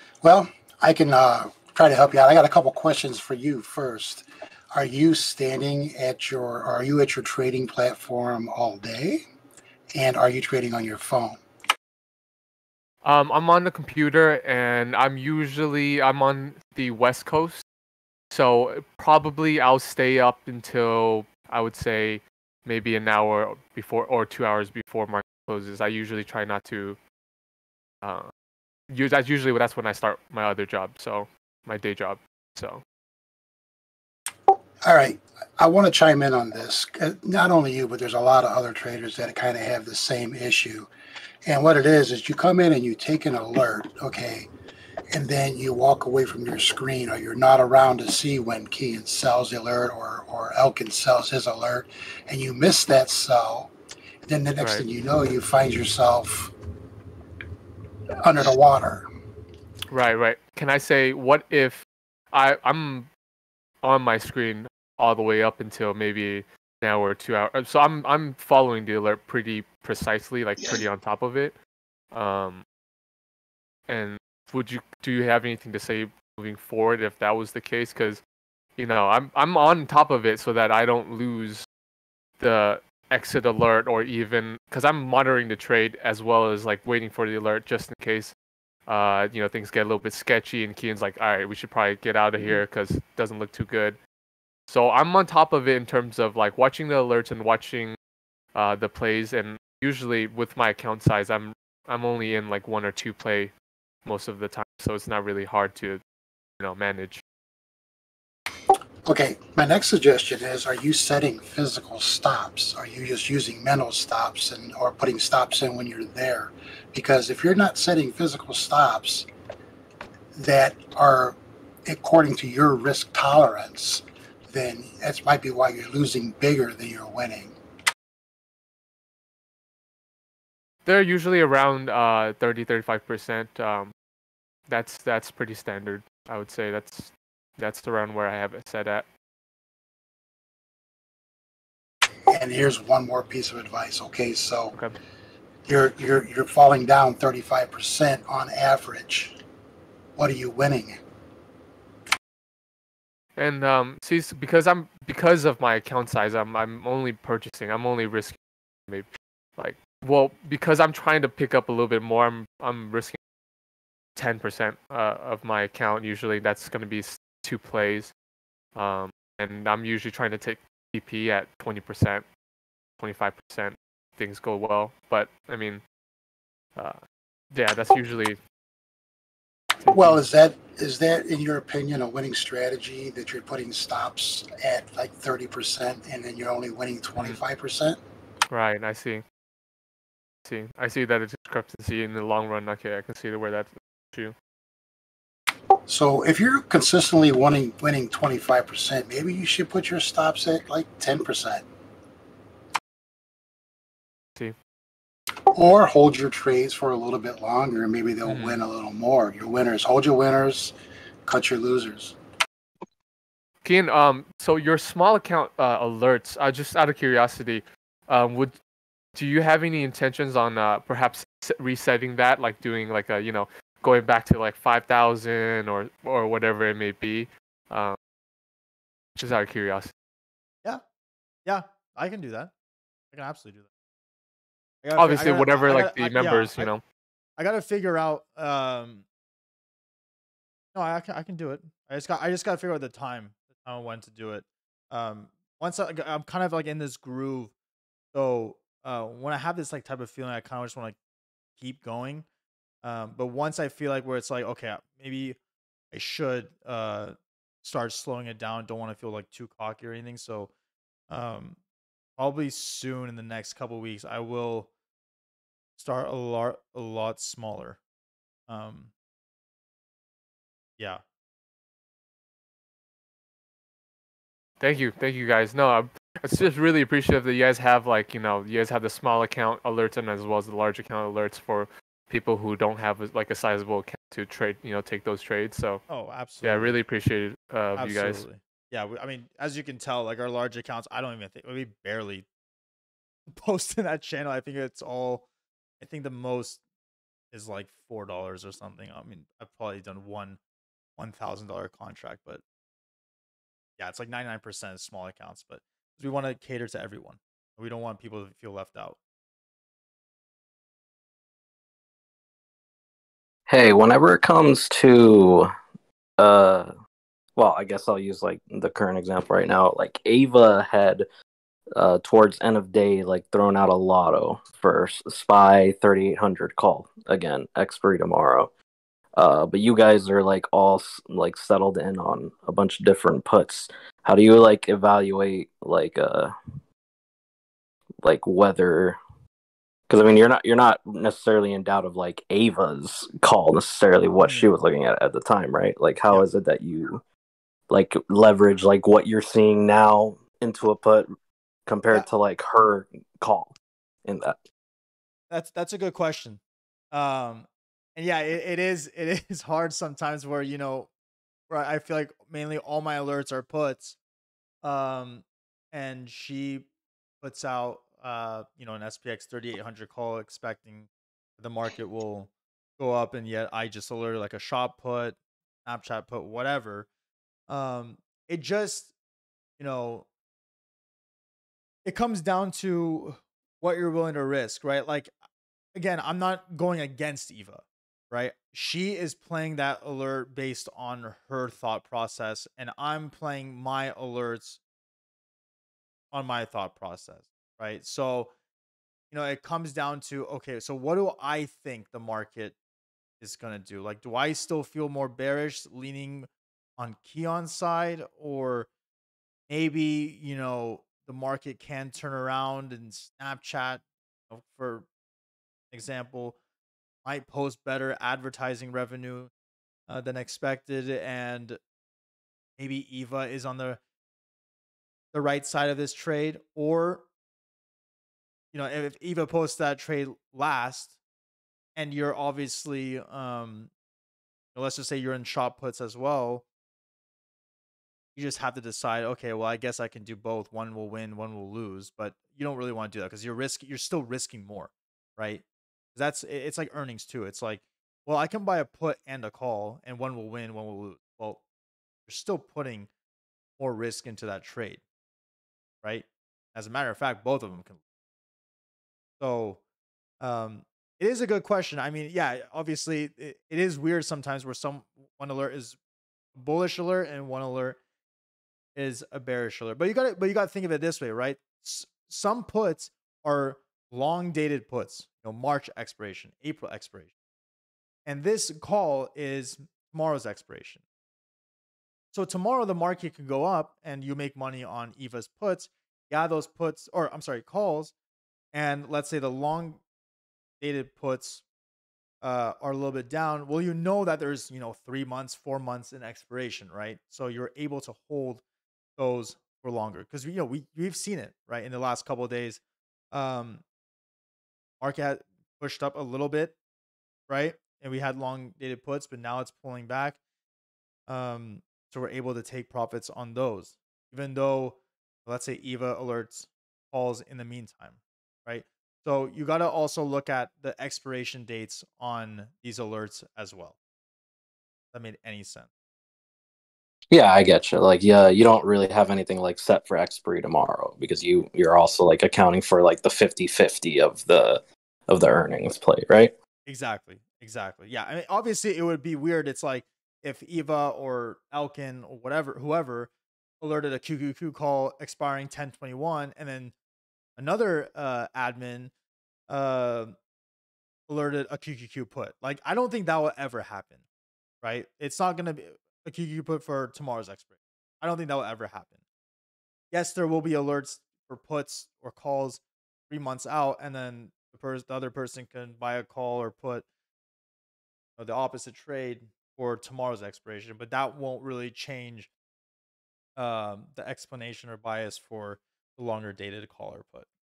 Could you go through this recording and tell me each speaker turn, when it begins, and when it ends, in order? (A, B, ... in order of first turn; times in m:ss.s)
0:00.2-0:09.2 A
0:09.9-0:11.4 A
0:13.0-0:17.6 B
0:18.3-0:27.0 B
0:28.0-0:28.3 B
0:28.9-0:32.8 B
0:34.8-0:40.9 A
0:41.4-0:44.5 A
0:45.1-0:53.7 A
0:54.2-0:56.5 A
0:58.2-0:59.0 A
0:59.9-1:03.1 B
1:03.8-1:11.5 B
1:12.1-1:12.6 B
1:13.9-1:18.2 B
1:18.8-1:21.6 B
1:22.4-1:28.3 B
1:28.9-1:34.0 B
1:34.7-1:38.0 B
1:38.5-1:43.5 B
1:44.0-1:46.0 B
1:46.6-1:47.2 B
1:48.7-1:59.3 A
2:00.3-2:07.6 A
2:10.8-2:13.9 B
2:14.7-2:19.0 B
2:22.3-2:24.8 A
2:25.7-2:29.4 A
2:30.2-2:31.0 A
2:33.4-2:38.4 B
2:38.9-2:43.2 B
2:44.2-2:48.1 B
2:48.7-2:52.2 B
2:53.0-2:55.8 B
2:57.5-2:58.4 B
2:59.8-3:00.2 B
2:59.9-3:08.0 A
3:08.5-3:09.2 B
3:10.4-3:14.3 B
3:15.8-3:21.7 A
3:25.5-3:30.7 A
3:28.2-3:28.6 B
3:31.2-3:32.2 A
3:33.6-3:38.6 B
3:39.1-3:48.0 B
3:49.2-3:49.9 B
3:51.4-3:52.5 C
3:53.1-3:53.7 C
3:54.8-3:56.7 C
3:55.0-3:56.8 B
3:57.4-3:59.0 C
4:00.7-4:07.5 C
4:08.1-4:11.0 C
4:11.6-4:12.2 C
4:12.8-4:15.4 C
4:15.9-4:20.5 C
4:21.1-4:21.6 C
4:22.2-4:24.7 C
4:25.8-4:27.8 C
4:28.5-4:28.9 C
4:34.6-4:45.8 B
4:45.9-4:46.8 C
4:46.4-4:48.2 B
4:47.8-4:52.2 C
4:53.3-4:55.2 C
4:55.8-4:56.6 C
4:57.3-5:00.4 C
5:01.0-5:02.4 C
5:03.8-5:09.0 C
5:13.5-5:15.5 D
5:16.2-5:16.7 D
5:17.4-5:21.0 D
5:21.7-5:28.5 D
5:29.2-5:36.3 D
5:38.0-5:39.0 D
5:39.9-5:47.0 D
5:44.2-5:44.5 C
5:47.7-5:51.1 D
5:51.7-5:54.4 D
5:55.3-5:56.4 C
5:56.9-6:00.9 C
6:01.5-6:04.0 C
6:04.6-6:06.7 C
6:07.2-6:16.9 C
6:17.5-6:18.9 C
6:19.6-6:20.1 C
6:21.8-6:25.1 C
6:25.7-6:34.6 C
6:36.1-6:38.3 C
6:39.1-6:42.5 C
6:43.2-6:48.7 C
6:49.5-6:54.9 C
6:55.7-6:56.4 C
6:57.0-6:59.3 C
6:59.9-7:01.6 C
7:02.6-7:03.8 C
7:05.1-7:07.0 C
7:08.5-7:11.0 C
7:11.8-7:13.7 C
7:14.5-7:16.4 C
7:18.1-7:25.4 C
7:25.9-7:31.4 C
7:32.1-7:32.9 C
7:33.6-7:34.8 C
7:35.8-7:37.8 C
7:39.2-7:39.6 C
7:40.2-7:45.8 C
7:46.3-7:47.8 C
7:48.7-7:57.1 C
7:58.0-8:00.8 C
8:02.1-8:07.9 C
8:08.5-8:09.8 C
8:10.6-8:11.4 C
8:12.2-8:18.4 C
8:19.0-8:22.6 C
8:23.1-8:23.6 C
8:24.8-8:26.5 C
8:27.3-8:30.2 C
8:31.1-8:43.8 C
8:44.9-8:45.7 C
8:47.1-8:56.3 D
8:56.6-9:03.1 C
9:03.6-9:06.7 C
9:07.4-9:08.9 C
9:09.5-9:10.2 C
9:11.1-9:14.0 C
9:14.6-9:19.0 C
9:19.9-9:26.8 C
9:28.2-9:32.3 C
9:33.4-9:37.2 C